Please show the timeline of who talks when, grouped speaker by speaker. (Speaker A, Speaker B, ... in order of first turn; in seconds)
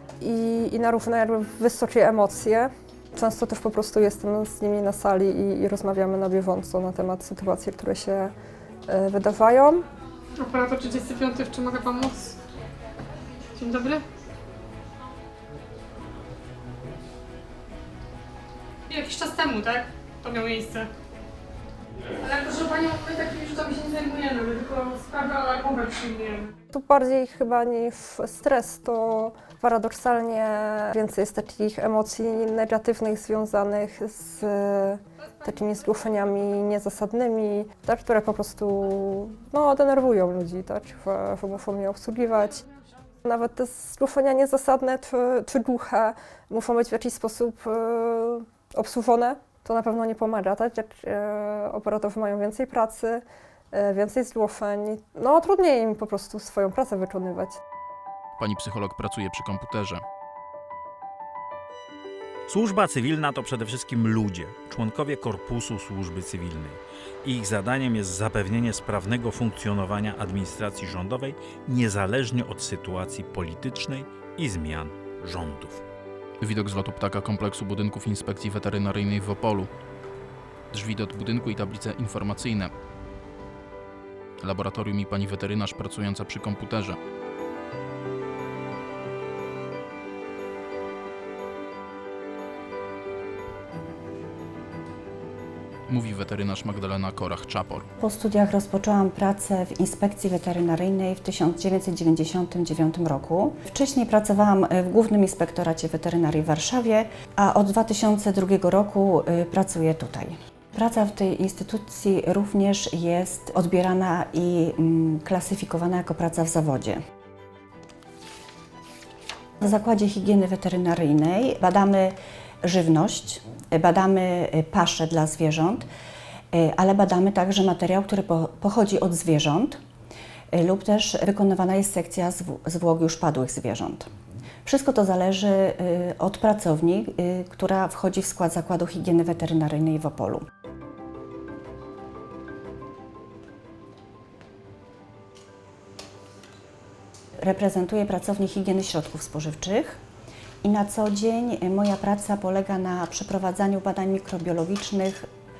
Speaker A: 0.2-8.3, 8.9-9.8, 26.7-42.6, 43.2-57.6
Speaker B: 10.4-12.4, 13.6-14.0, 18.9-20.9, 22.2-26.6
Speaker C: 58.4-60.0, 76.4-79.7, 80.7-82.7, 84.4-87.0, 95.9-97.9
Speaker D: 62.5-75.8
Speaker E: 98.0-117.0, 119.6-125.9, 126.5-129.8, 130.5-134.1, 134.6-140.4, 147.4-150.0, 150.6-155.3